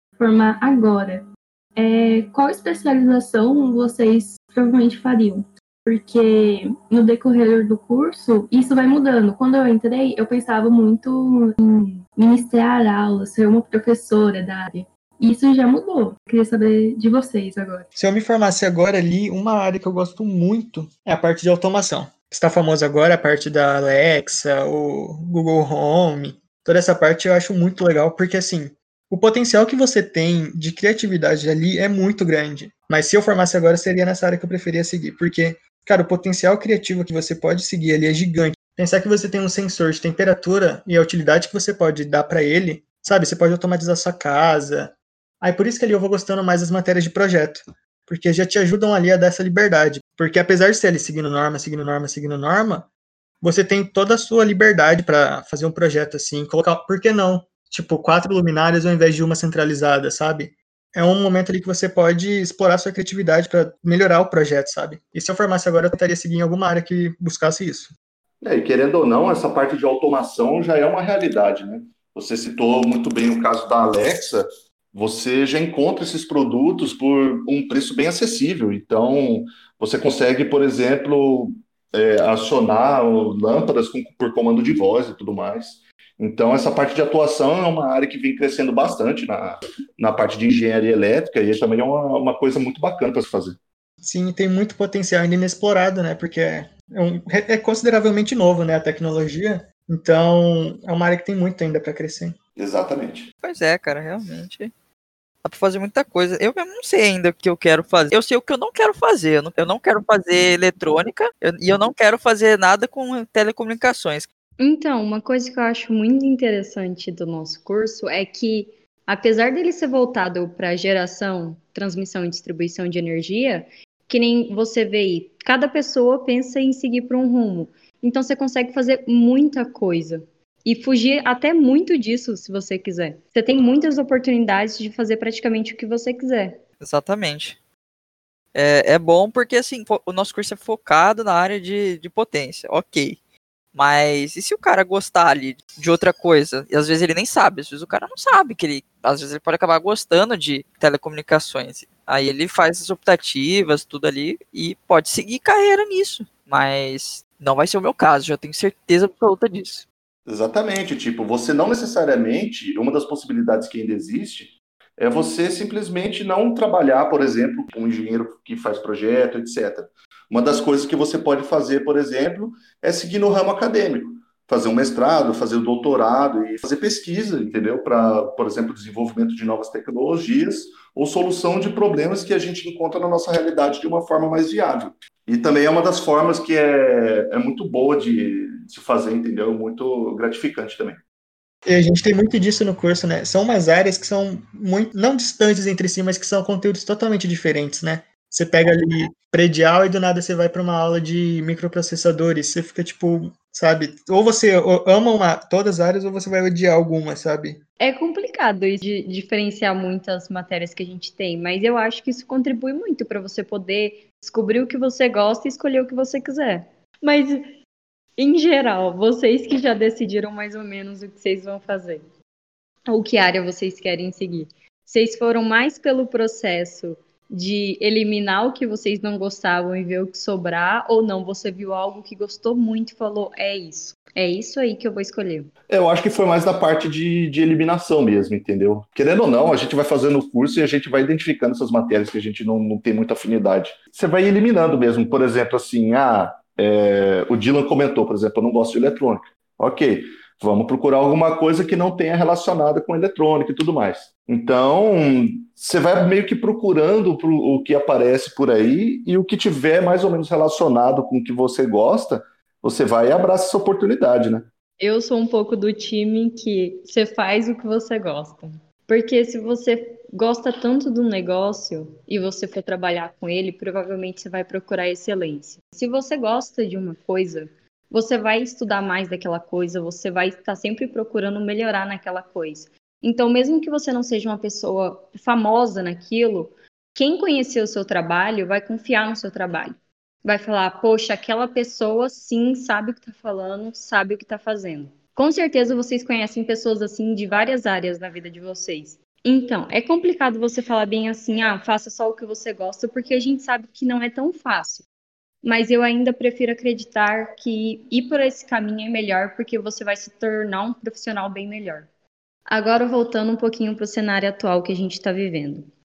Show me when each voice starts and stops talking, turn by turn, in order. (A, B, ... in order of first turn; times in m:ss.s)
0:00.2-0:17.9 A
0:18.0-0:52.9 B
0:53.4-1:07.9 B
1:08.4-1:33.6 C
1:34.0-1:42.4 B
1:42.6-1:43.3 C
1:43.4-1:44.7 D
1:45.4-1:54.3 D
1:54.6-2:16.6 E
2:16.8-2:17.6 D
2:18.5-2:23.2 D
2:23.7-2:39.8 D
2:40.3-3:11.0 C
3:11.6-3:27.6 B
3:27.8-3:37.5 E
3:38.2-3:42.0 E
3:42.9-3:55.5 E
3:55.7-4:24.5 C
4:24.8-5:04.8 E
5:05.4-5:11.9 E
5:12.5-5:15.7 E